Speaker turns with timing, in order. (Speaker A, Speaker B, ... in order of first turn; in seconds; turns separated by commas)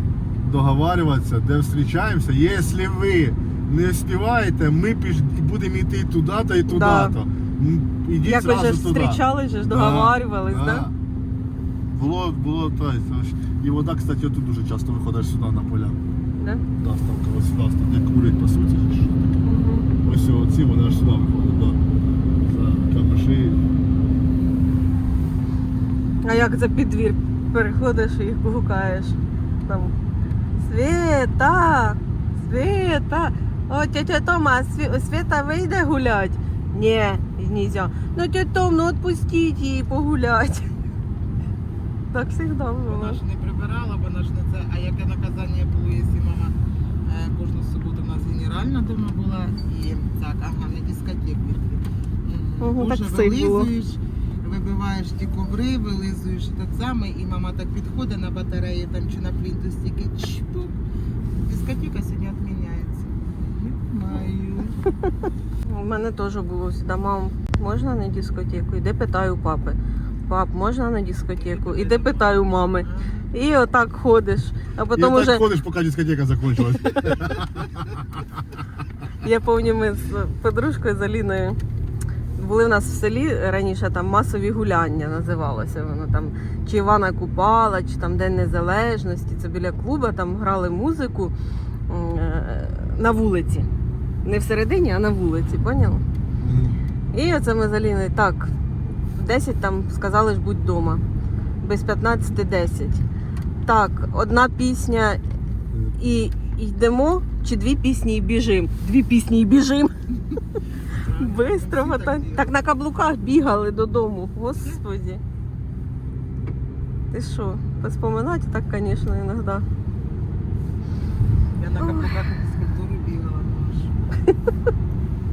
Speaker A: 0.4-10.9, Speaker B: 6.7-7.2, Speaker B: 8.2-10.9, Speaker A: 11.9-16.0, Speaker B: 16.4-16.6, Speaker A: 16.8-19.4, Speaker B: 19.4-19.9, Speaker A: 20.0-21.8, Speaker A: 22.4-23.7, Speaker B: 26.2-29.9, Speaker B: 30.6-40.8, Speaker B: 42.1-43.2, Speaker C: 42.9-46.5, Speaker C: 47.1-60.8, Speaker B: 52.6-53.7, Speaker C: 61.5-64.8, Speaker B: 65.6-75.5, Speaker C: 71.4-73.3, Speaker A: 74.9-78.2, Speaker B: 76.9-77.2, Speaker B: 79.2-81.6, Speaker B: 82.4-91.3, Speaker B: 91.9-93.7, Speaker B: 94.2-96.0, Speaker A: 96.4-96.8, Speaker B: 97.1-98.5, Speaker B: 99.2-101.0, Speaker B: 101.6-103.0, Speaker B: 103.6-105.2, Speaker A: 105.7-106.0, Speaker B: 106.0-109.9, Speaker C: 110.9-112.5, Speaker B: 111.2-115.2, Speaker B: 117.1-119.7, Speaker C: 121.6-123.9, Speaker B: 121.8-122.2